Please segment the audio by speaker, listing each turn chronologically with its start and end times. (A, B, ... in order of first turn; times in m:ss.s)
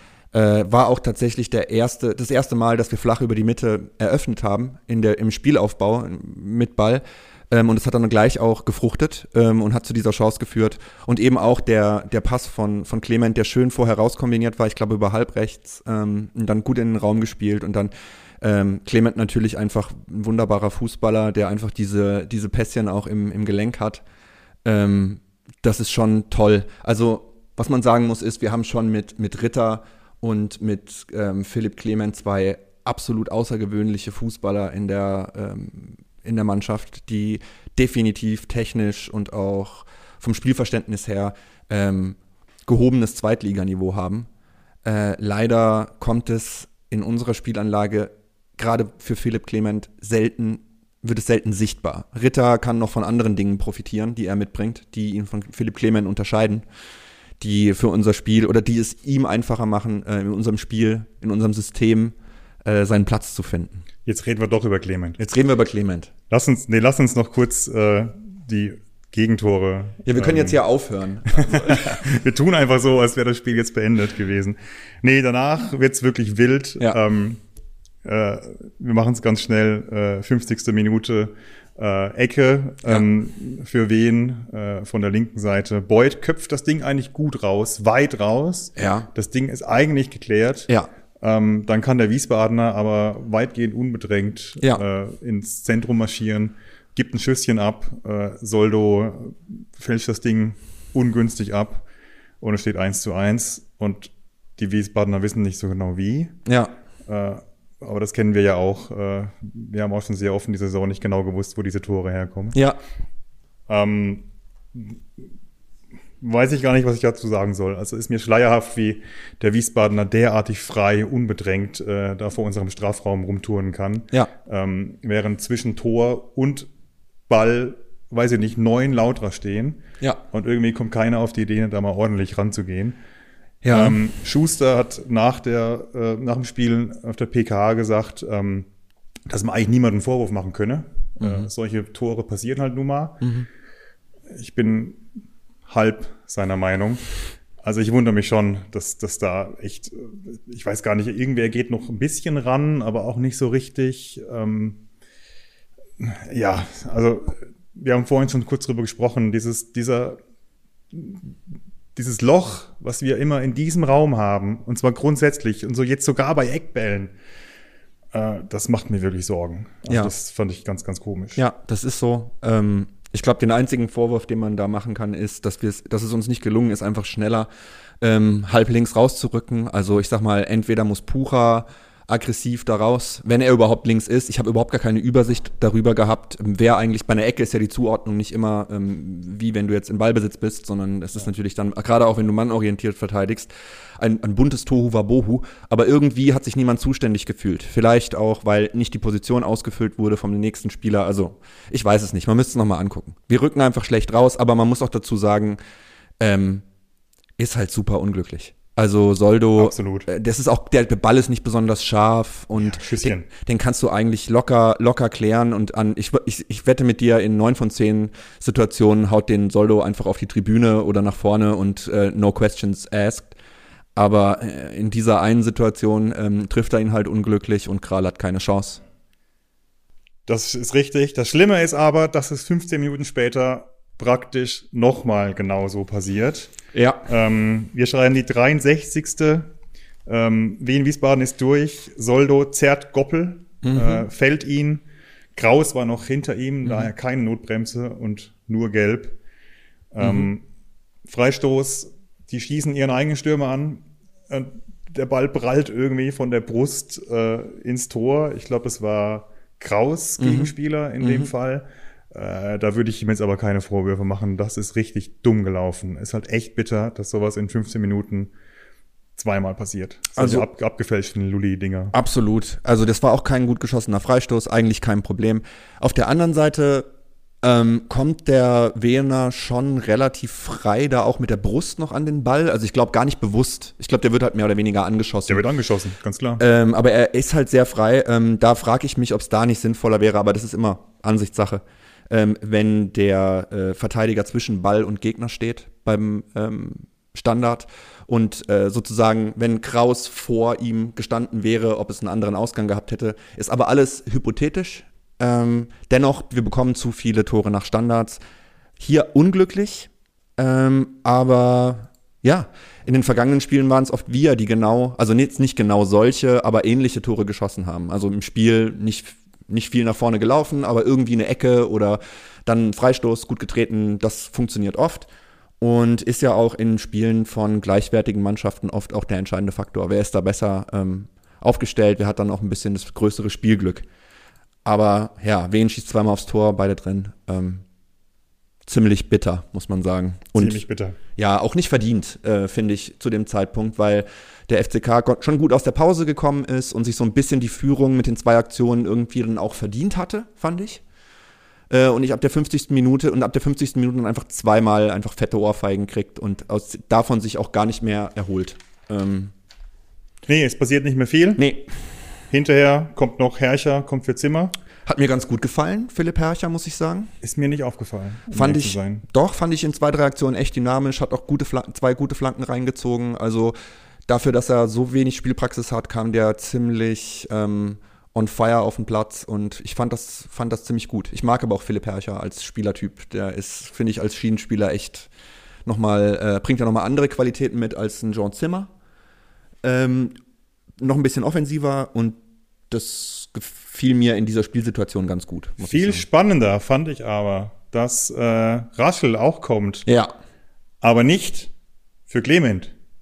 0:00.3-0:24.0 A
0:24.6-0:44.3 A
0:44.8-0:56.6 A
0:57.4-1:03.8 A
1:04.0-1:05.2 B
1:05.2-1:06.1 A
1:06.3-1:10.6 B
1:10.1-1:12.0 A
1:11.3-1:17.4 B
1:18.0-1:30.7 B
1:28.8-1:29.1 A
1:31.2-1:41.8 B
1:42.4-1:46.4 B
1:46.4-1:46.7 A
1:47.1-1:52.6 B
1:52.5-1:52.8 A
1:53.7-1:55.0 B
1:56.2-2:06.7 B
2:07.3-2:09.8 B
2:10.3-2:13.0 B
2:13.6-2:14.0 A
2:13.7-2:18.7 B
2:19.3-2:23.3 B
2:21.2-2:21.5 A
2:23.2-2:23.5 A
2:24.3-2:25.0 B
2:25.7-2:27.1 B
2:27.6-2:34.8 B
2:36.0-2:40.2 B
2:40.9-2:41.2 B
2:41.9-2:47.1 B
2:48.1-2:51.4 B
2:51.4-2:57.5 A
2:58.0-3:25.6 A
3:26.2-3:26.6 A
3:27.4-3:43.3 A
3:29.6-3:30.1 B
3:32.6-3:33.3 B
3:44.0-3:48.8 A
3:50.3-3:56.5 B
3:56.7-3:57.0 A
3:57.1-3:59.5 B
4:00.1-4:04.8 B
4:03.6-4:04.1 A
4:05.4-4:09.2 B
4:09.9-4:10.4 B
4:10.0-4:10.3 A
4:11.1-4:28.3 B
4:20.2-4:21.3 A
4:29.2-4:31.9 B
4:30.2-4:30.4 A
4:31.9-4:36.9 A
4:37.4-4:45.4 A
4:45.3-4:46.4 B
4:46.4-5:08.2 A
5:08.8-5:25.1 A
5:25.6-5:33.8 A
5:34.6-5:37.6 A
5:38.6-5:40.6 A
5:40.4-5:41.0 B
5:41.2-5:50.8 A
5:51.7-5:59.3 A
6:00.3-6:01.4 B
6:01.4-6:01.7 A
6:02.3-6:04.5 B
6:04.9-6:07.1 A
6:07.2-6:09.0 B
6:08.3-6:13.6 A
6:14.1-6:25.1 A
6:25.6-6:28.7 A
6:29.6-6:30.1 A
6:30.8-6:32.2 A
6:32.7-6:36.0 A
6:35.6-6:39.9 B
6:39.9-6:40.1 A
6:40.8-6:41.5 B
6:42.1-6:42.7 B